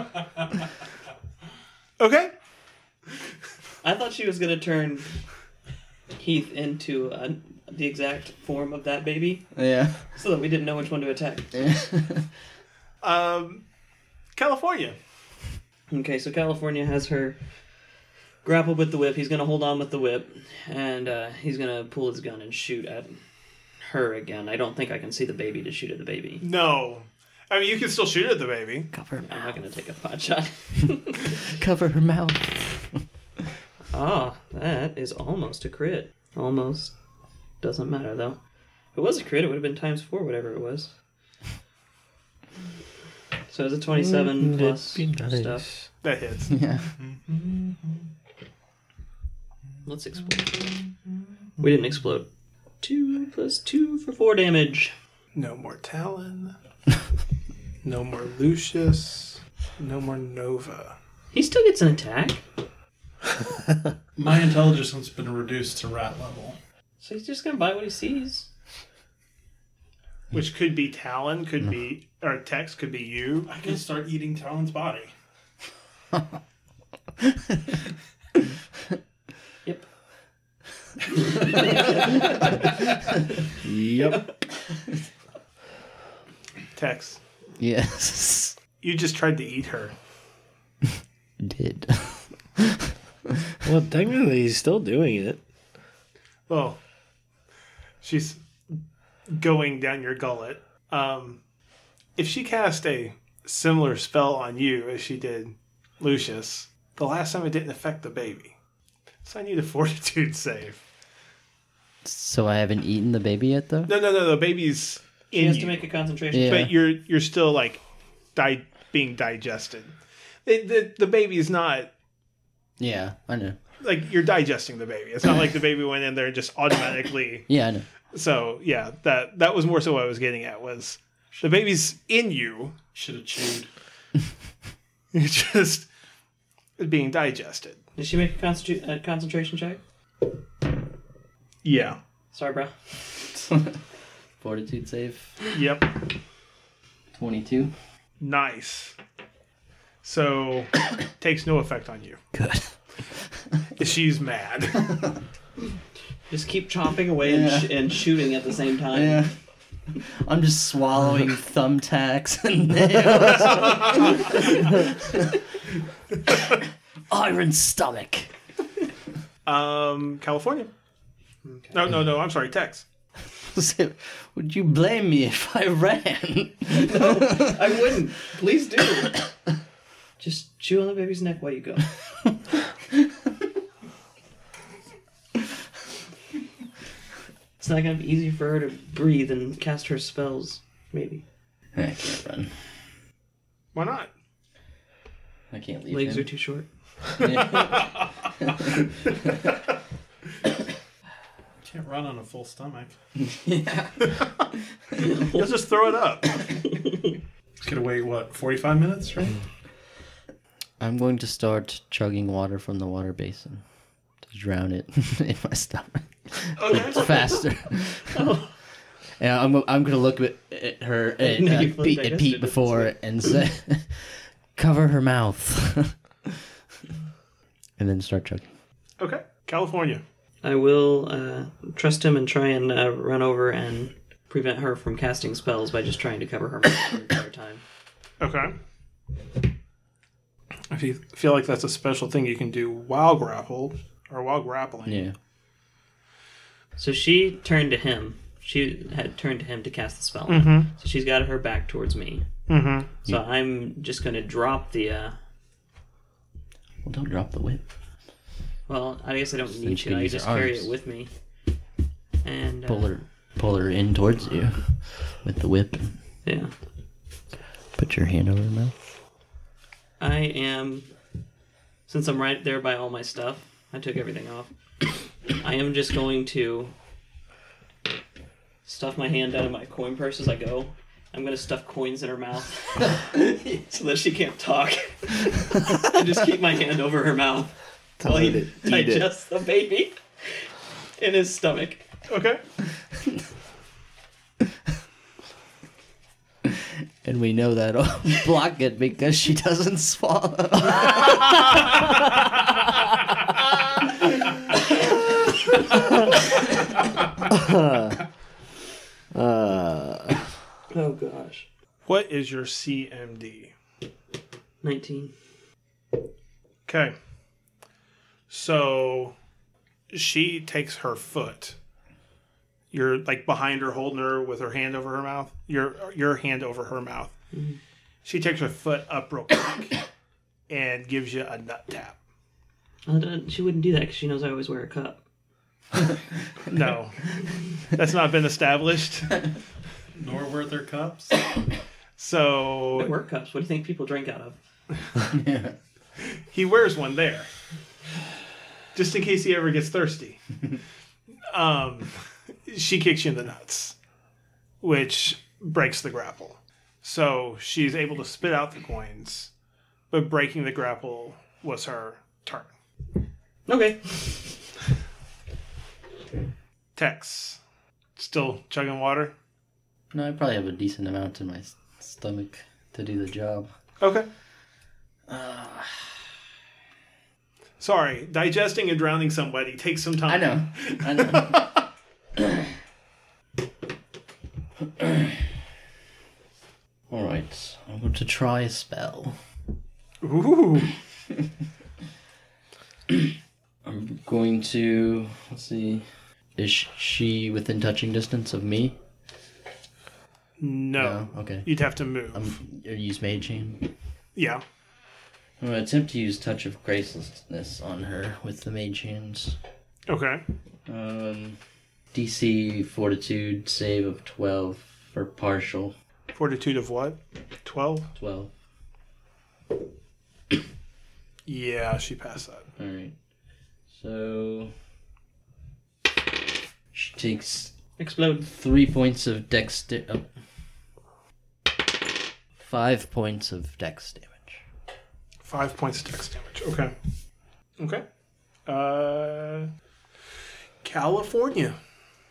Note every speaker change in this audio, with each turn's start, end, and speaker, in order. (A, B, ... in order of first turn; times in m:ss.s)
0:00.1-0:00.4 A
0:02.0-0:02.3 B
0:03.8-0:05.2 C
0:06.2-0:09.5 C
0:09.6-0:10.1 D
0:10.1-0:11.5 C
0:11.5-0:12.3 D
0:13.0-0:13.6 B
0:14.4-0:15.0 B
0:15.9-0:17.4 C
0:18.4-0:23.2 C
0:23.8-0:26.4 C
0:26.4-0:28.9 B
0:28.9-0:29.3 D
0:29.2-0:31.4 C
0:31.4-0:33.0 D
0:33.9-0:36.9 C
0:37.6-0:38.4 C
0:38.9-0:40.9 C
0:43.5-0:45.7 C
0:44.0-0:45.9 E
0:46.0-0:46.6 B
0:46.5-0:46.9 D
0:47.0-0:47.8 A
0:49.8-0:50.8 C
0:51.6-0:52.3 C
0:52.8-0:54.9 C
0:55.3-0:56.6 B
0:57.8-1:01.0 B
1:01.3-1:02.4 C
1:04.2-1:06.6 A
1:07.0-1:08.5 C
1:10.3-1:13.5 B
1:13.5-1:15.1 A
1:21.2-1:22.9 C
1:23.6-1:24.2 E
1:24.0-1:24.3 C
1:26.8-1:27.2 B
1:27.6-1:28.6 D
1:28.8-1:29.9 B
1:31.4-1:32.9 D
1:33.6-1:35.4 E
1:36.5-1:36.8 B
1:38.0-1:38.8 B
1:39.3-1:41.4 B
1:42.2-1:48.6 B
1:49.2-1:50.8 B
1:52.0-1:53.9 D
1:53.9-1:55.9 B
1:55.3-1:56.6 C
1:56.3-1:56.7 D
1:56.4-1:57.8 B
1:58.4-1:59.9 B
2:00.4-2:01.9 B
2:02.8-2:03.6 D
2:03.8-2:07.5 B
2:07.5-2:07.9 D
2:08.1-2:12.8 B
2:12.9-2:13.7 A
2:15.1-2:15.9 B
2:16.8-2:17.8 B
2:18.0-2:19.8 C
2:21.6-2:22.0 B
2:22.3-2:22.8 C
2:23.3-2:23.8 D
2:24.4-2:25.4 D
2:25.5-2:26.0 B
2:27.1-2:27.7 D
2:28.2-2:29.0 B
2:30.0-2:32.2 B
2:32.3-2:33.4 D
2:33.8-2:35.0 B
2:36.3-2:39.3 C
2:37.2-2:37.9 D
2:38.9-2:39.3 D
2:40.0-2:45.4 D
2:47.1-2:48.3 D
2:49.4-2:50.7 B
2:51.4-2:51.8 C
2:51.7-2:52.8 B
2:53.4-2:57.9 D
2:56.7-2:59.2 C
3:00.2-3:01.9 C
3:07.6-3:11.2 C
3:11.8-3:12.6 D
3:13.7-3:14.1 B
3:15.5-3:16.3 D
3:15.9-3:16.7 C
3:17.2-3:17.8 D
3:17.2-3:18.0 B
3:18.4-3:18.7 D
3:21.6-3:22.9 A
3:23.2-3:24.0 D
3:25.0-3:25.4 C
3:25.2-3:26.4 B
3:26.9-3:27.1 C
3:27.6-3:29.4 A
3:30.8-3:33.6 D
3:34.2-3:38.2 D
3:36.6-3:37.4 B
3:36.8-3:37.4 C
3:38.0-3:38.5 C
3:39.2-3:46.0 D
3:41.2-3:42.9 C
3:47.8-3:48.5 D
3:49.0-3:50.0 B
3:50.4-3:57.6 C
3:58.2-3:58.6 B
4:00.7-4:05.1 B
4:04.9-4:05.2 D
4:06.8-4:12.3 C
4:10.3-4:10.7 B
4:12.5-4:12.9 B
4:13.0-4:15.2 C
4:16.8-4:17.6 D
4:18.7-4:21.1 C
4:19.5-4:20.7 D
4:22.2-4:23.0 C
4:22.7-4:26.0 D
4:26.2-4:26.5 C
4:27.8-4:28.7 D
4:30.0-4:30.9 C
4:31.9-4:36.7 C
4:38.6-4:51.9 C
4:48.0-4:49.1 E
4:52.1-4:52.4 B
4:57.0-5:01.8 D
5:07.3-5:08.0 E
5:09.1-5:10.2 E
5:10.7-5:11.5 C
5:11.9-5:13.5 B
5:14.6-5:15.1 C
5:16.7-5:17.0 B
5:18.3-5:19.1 B
5:19.9-5:21.6 B
5:22.7-5:27.1 B
5:27.3-5:27.6 C
5:28.0-5:29.8 B
5:30.5-5:32.0 B
5:32.9-5:35.0 C
5:36.5-5:37.1 B
5:37.7-5:39.3 B
5:40.0-5:41.2 A
5:42.0-5:42.9 B
5:42.8-5:44.4 C
5:45.1-5:45.6 D
5:46.2-5:47.3 B
5:48.7-5:50.4 B
5:51.3-5:51.9 B
5:52.5-5:53.8 B
5:54.6-5:59.3 B
5:59.9-6:02.5 B
6:03.5-6:04.5 C
6:06.8-6:07.4 B
6:08.0-6:09.1 B
6:09.9-6:13.5 D
6:13.8-6:14.1 B
6:15.1-6:16.0 D
6:17.6-6:21.5 B
6:20.1-6:21.6 D
6:22.2-6:22.4 D
6:24.8-6:25.2 D
6:26.9-6:29.2 D
6:30.0-6:30.7 B
6:33.6-6:38.8 D
6:40.4-6:42.3 B
6:40.8-6:41.5 D
6:42.1-6:43.7 D
6:44.2-6:44.4 B
6:45.4-6:49.4 D
6:49.9-6:50.2 B
6:50.7-6:51.4 D
6:51.9-6:55.8 D
6:56.1-6:57.9 B
6:58.0-6:58.3 D
7:01.3-7:02.5 B
7:02.6-7:03.0 D
7:03.7-7:04.6 D
7:06.7-7:07.5 D
7:07.8-7:08.3 C
7:08.2-7:10.1 D
7:12.4-7:14.4 D
7:15.2-7:16.8 B
7:17.6-7:17.8 B
7:18.5-7:19.5 B
7:20.6-7:21.6 B